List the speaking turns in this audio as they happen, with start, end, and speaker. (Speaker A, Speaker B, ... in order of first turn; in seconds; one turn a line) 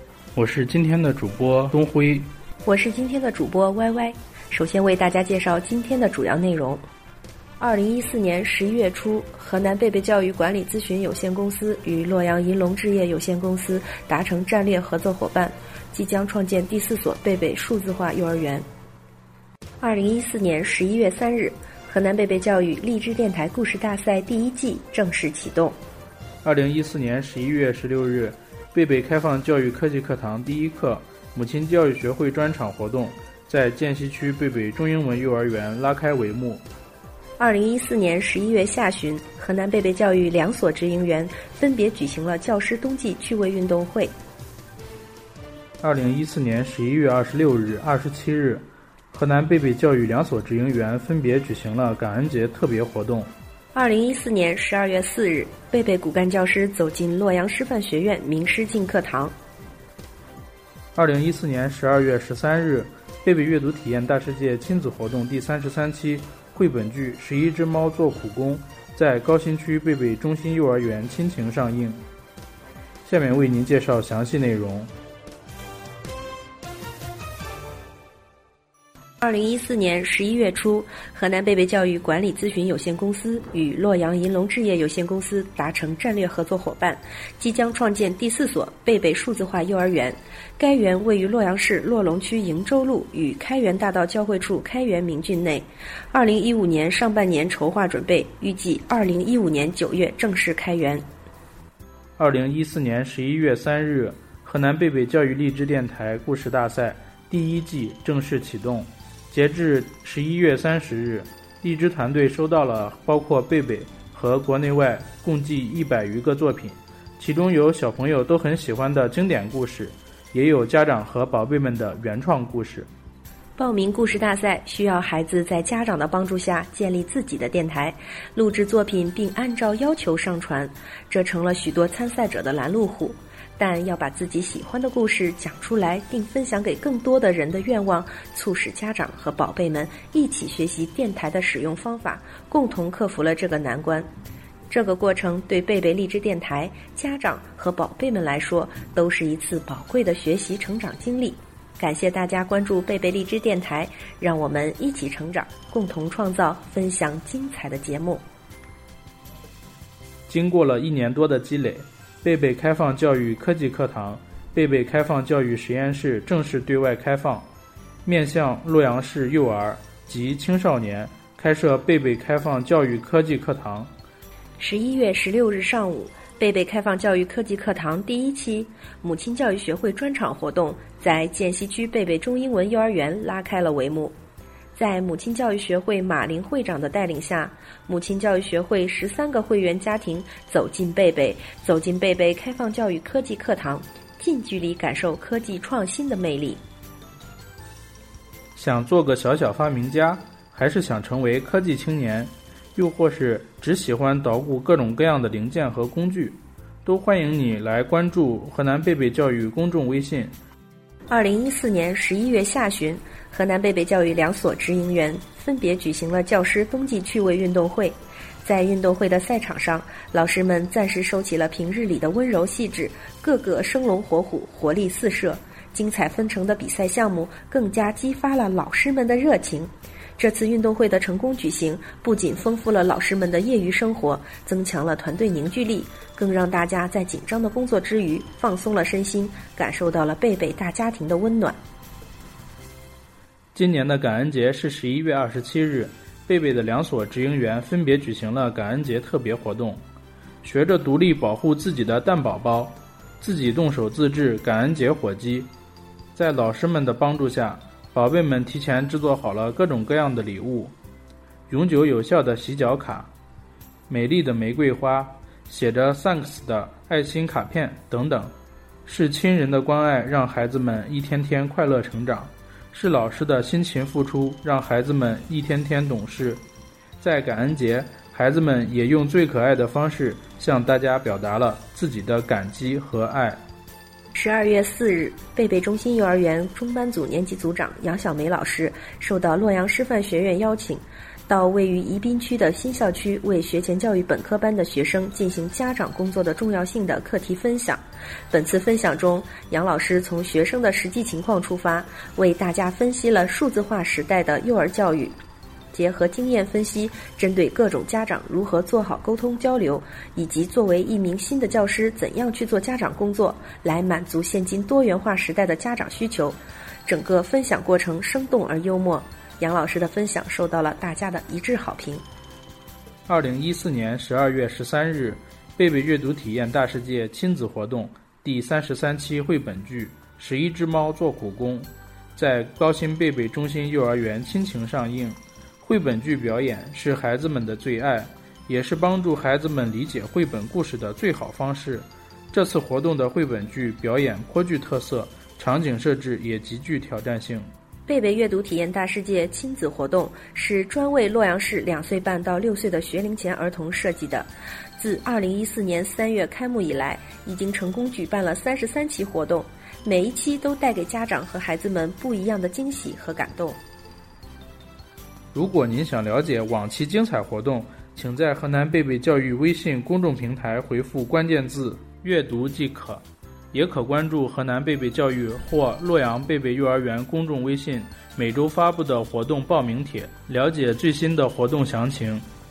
Speaker A: 0.3-2.3
Speaker B: 2.6-6.8
Speaker B: 7.6-18.6
Speaker B: 19.8-25.8
Speaker A: 26.4-36.6
Speaker B: 37.4-44.1
Speaker A: 45.8-53.3
Speaker B: 53.7-59.3
Speaker A: 60.9-72.0
Speaker A: 73.0-74.9
Speaker B: 79.2-101.0
Speaker A: 102.2-122.9
Speaker B: 123.6-144.1
Speaker B: 144.7-158.2
Speaker A: 160.3-167.4
Speaker A: 168.0-173.9
Speaker B: 174.6-184.1
Speaker B: 184.7-196.6
Speaker A: 198.5-210.3
Speaker B: 211.1-241.6
Speaker A: 243.5-249.8
Speaker A: 250.4-255.5
Speaker A: 256.1-260.7
Speaker A: 261.5-263.1
Speaker A: 263.9-268.3
Speaker A: 268.9-276.4
Speaker A: 277.0-283.4
Speaker B: 284.1-297.8
Speaker B: 298.3-305.1
Speaker B: 305.7-322.0
Speaker A: 323.1-347.4
Speaker B: 347.9-363.6
Speaker A: 365.3-382.2